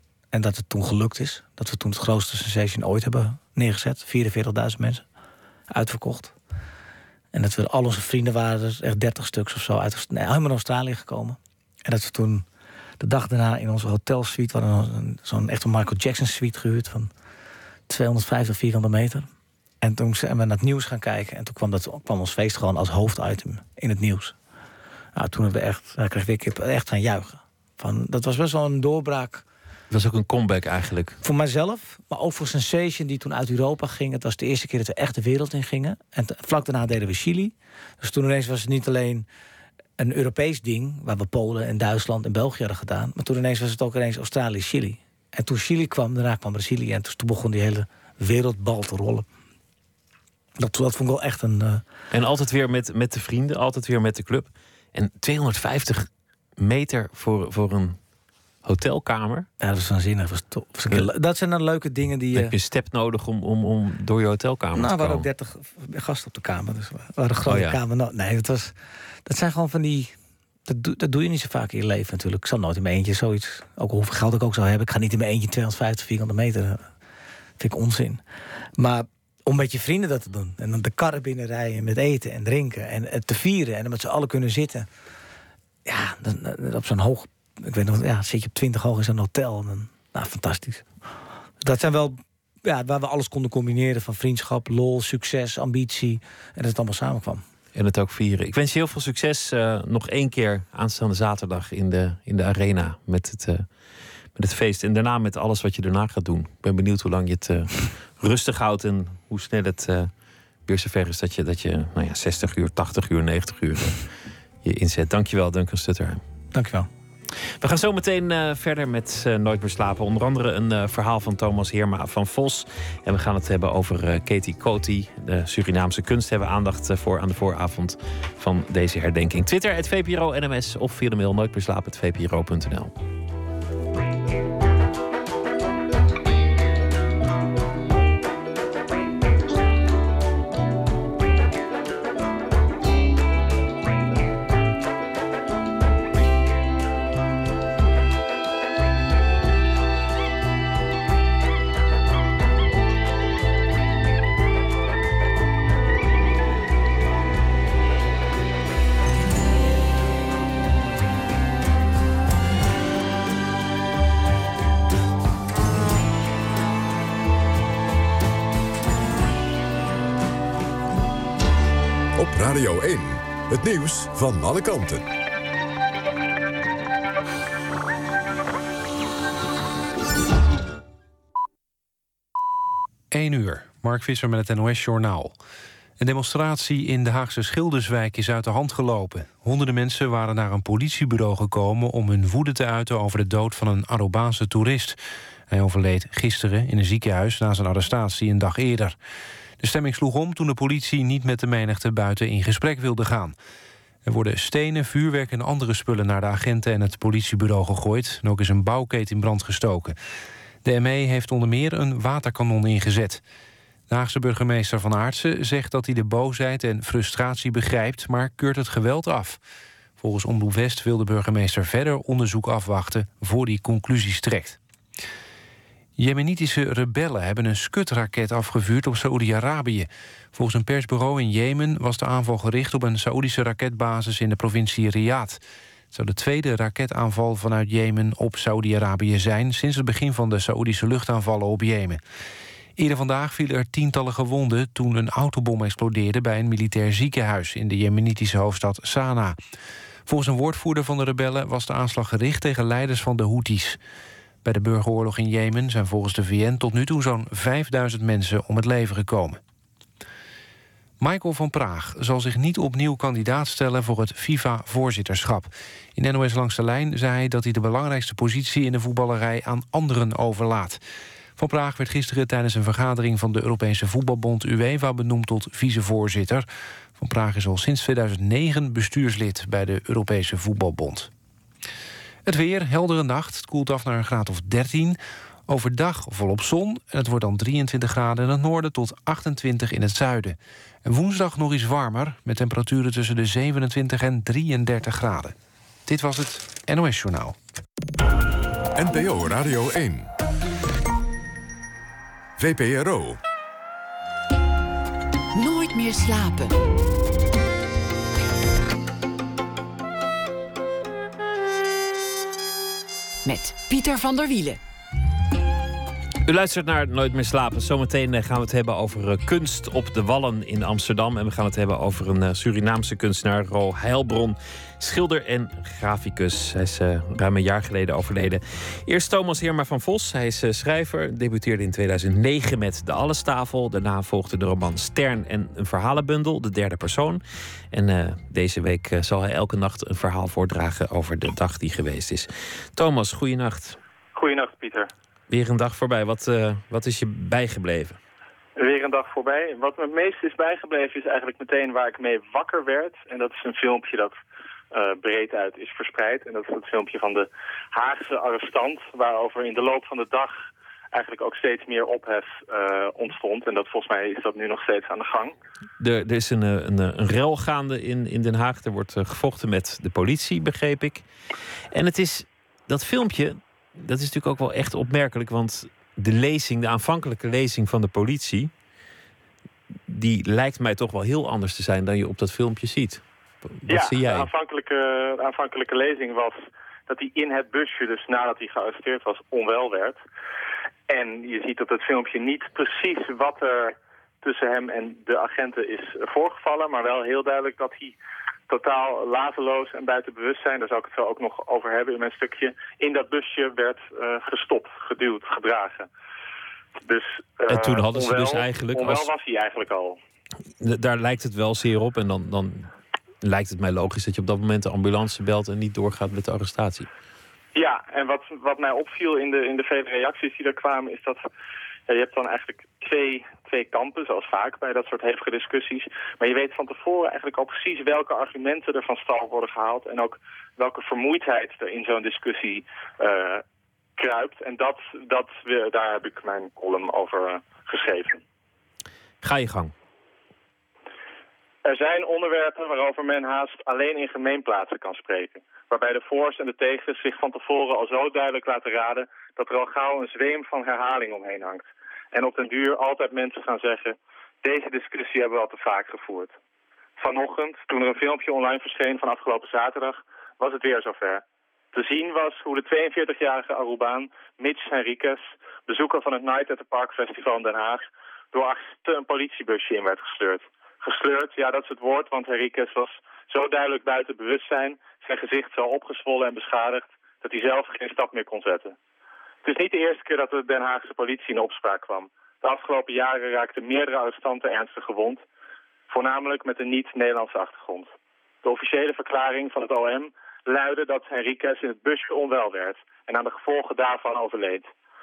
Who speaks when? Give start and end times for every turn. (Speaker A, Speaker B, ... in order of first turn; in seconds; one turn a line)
Speaker A: 0.3-5.0
Speaker A: 5.7-6.3
Speaker A: 7.3-12.5
Speaker A: 13.0-17.1
Speaker A: 17.9-19.3
Speaker A: 19.8-24.4
Speaker A: 25.2-29.4
Speaker B: 29.9-31.2
Speaker A: 31.2-39.3
Speaker A: 40.0-49.3
Speaker A: 50.6-51.8
Speaker B: 52.1-56.1
Speaker B: 56.6-58.0
Speaker B: 58.6-59.5
Speaker A: 59.6-62.5
Speaker B: 62.3-65.3
Speaker A: 64.8-68.7
Speaker B: 67.5-67.8
Speaker A: 69.3-70.1
Speaker A: 70.7-76.9
Speaker A: 77.6-78.2
Speaker A: 78.8-84.9
Speaker A: 85.9-90.9
Speaker A: 91.6-97.4
Speaker B: 97.8-103.7
Speaker B: 104.3-110.1
Speaker B: 110.7-114.0
Speaker B: 114.6-116.2
Speaker A: 116.5-116.9
Speaker B: 117.6-132.9
Speaker C: 172.2-175.1
Speaker D: 183.1-185.4
Speaker D: 186.0-199.0
Speaker D: 199.6-203.3
Speaker D: 204.1-210.0
Speaker D: 210.6-213.2
Speaker D: 213.9-219.4
Speaker D: 220.0-224.6
Speaker D: 226.0-242.0
Speaker D: 242.8-249.4
Speaker D: 250.1-253.8
Speaker D: 254.4-259.4
Speaker D: 261.0-270.8
Speaker D: 271.4-281.1
Speaker D: 282.2-297.4
Speaker C: 298.8-300.1
Speaker C: 302.4-303.2
Speaker E: 305.3-306.6
Speaker E: 313.2-314.6
Speaker B: 316.2-343.8
Speaker F: 344.1-344.9
Speaker B: 345.3-348.0
Speaker F: 348.6-354.1
Speaker F: 354.7-360.4
Speaker F: 360.9-365.4
Speaker B: 365.8-371.1
Speaker B: 371.7-378.5
Speaker B: 379.9-384.3
Speaker F: 383.7-390.0
Speaker F: 390.9-398.0
Speaker F: 398.5-405.9
Speaker F: 406.9-410.0
Speaker B: 407.5-409.1
Speaker B: 410.6-412.7
Speaker B: 413.2-416.9
Speaker F: 417.6-421.2
Speaker F: 421.9-433.4
Speaker F: 434.0-438.2
Speaker B: 439.2-439.7
Speaker F: 441.6-456.3
Speaker F: 457.0-478.8
Speaker F: 479.4-485.2
Speaker F: 485.9-487.9
Speaker F: 488.4-494.7